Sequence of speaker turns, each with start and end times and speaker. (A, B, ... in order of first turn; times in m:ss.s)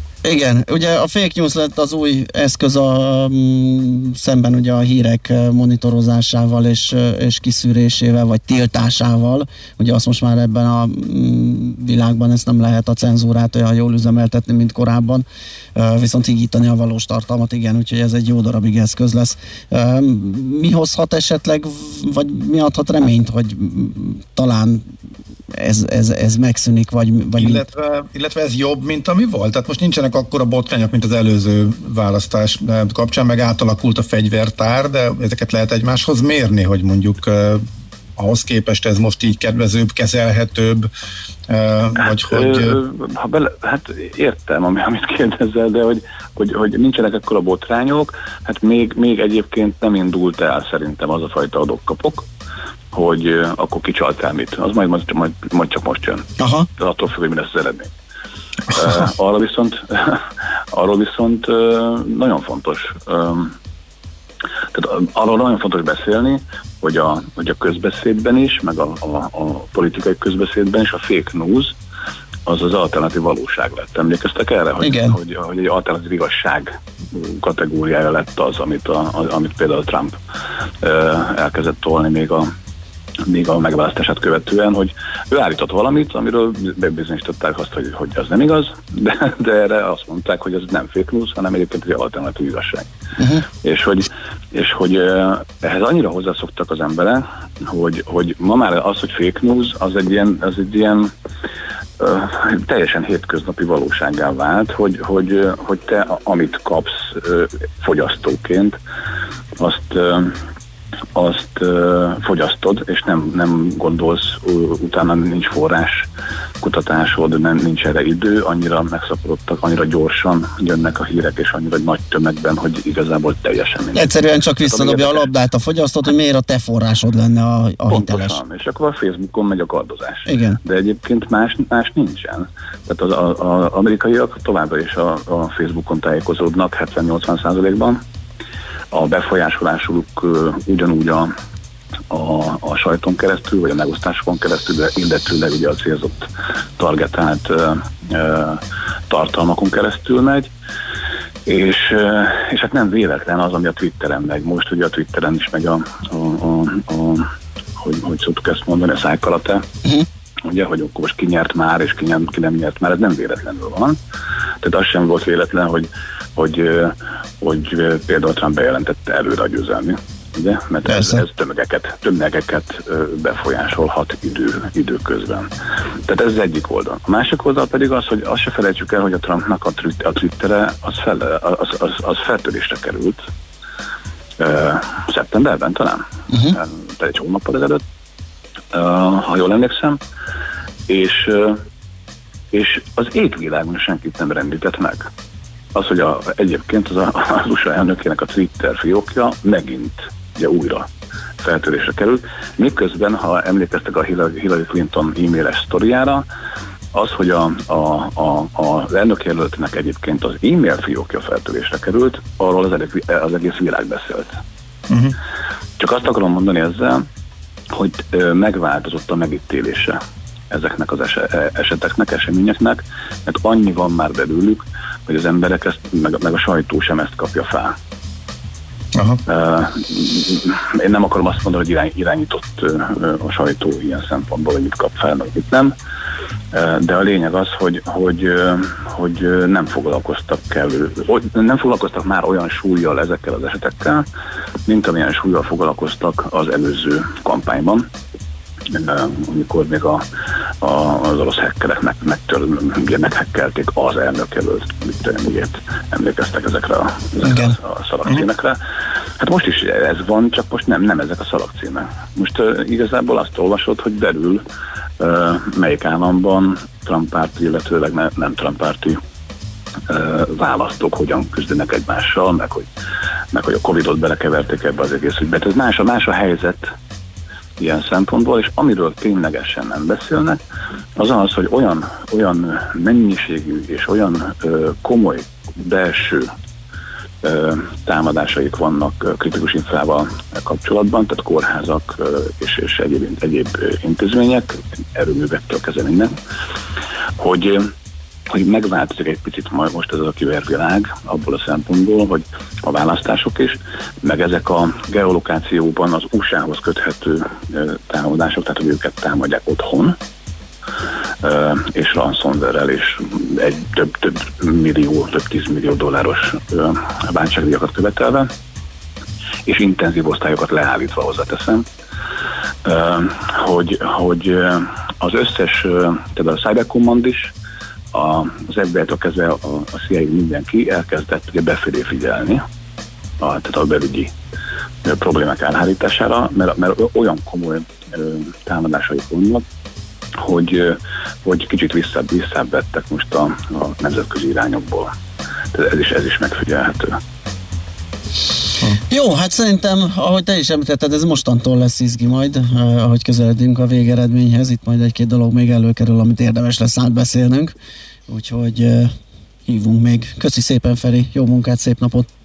0:00.2-0:24.9 A
0:25.5-0:27.6 A
0:27.4-0:37.6 B
0:38.2-0:40.9 B
0:41.5-0:42.8 B
0:42.2-0:52.3 C
0:52.9-0:57.9 C
0:56.4-0:56.7 A
0:58.7-1:03.6 C
1:04.7-1:11.7 C
1:12.5-1:20.2 C
1:14.8-1:15.2 A
1:20.8-1:22.5 C
1:23.2-1:32.9 C
1:33.2-1:33.4 A
1:33.5-1:41.1 C
1:42.0-1:48.8 C
1:49.6-1:50.4 C
1:51.2-1:56.0 C
1:56.6-2:05.3 C
2:03.9-2:08.4 A
2:07.9-2:18.0 C
2:10.3-2:10.6 A
2:18.9-2:21.3 C
2:22.1-2:30.5 C
2:31.5-2:37.3 C
2:37.8-2:39.7 C
2:40.5-2:44.0 C
2:44.6-2:55.5 C
2:50.9-2:51.2 A
2:56.1-3:03.2 C
3:04.4-3:07.8 C
3:06.3-3:06.6 A
3:08.7-3:10.0 C
3:10.9-3:11.6 C
3:12.5-3:15.1 C
3:15.7-3:20.9 C
3:21.4-3:26.2 C
3:26.9-3:34.4 C
3:34.9-3:35.2 B
3:35.8-3:37.1 C
3:37.7-3:40.0 C
3:40.5-3:47.8 C
3:48.9-3:49.2 B
3:49.3-3:55.7 C
3:56.5-4:04.1 C
4:04.7-4:07.9 C
4:08.7-4:10.0 C
4:10.6-4:18.6 C
4:17.2-4:17.6 A
4:19.2-4:24.4 C
4:25.0-4:29.0 C
4:29.9-4:32.7 C
4:33.3-4:36.7 C
4:37.6-4:40.4 C
4:41.0-4:46.3 C
4:47.2-4:56.1 C
4:57.2-4:57.7 C
4:58.3-5:10.0 C
5:11.2-5:18.3 C
5:19.5-5:21.7 C
5:22.6-5:27.3 C
5:27.9-5:32.4 C
5:33.2-5:34.1 C
5:34.8-5:39.4 C
5:40.2-5:44.9 C
5:45.5-5:47.0 C
5:48.8-5:57.5 A
5:58.1-5:58.9 A
5:59.5-6:02.1 A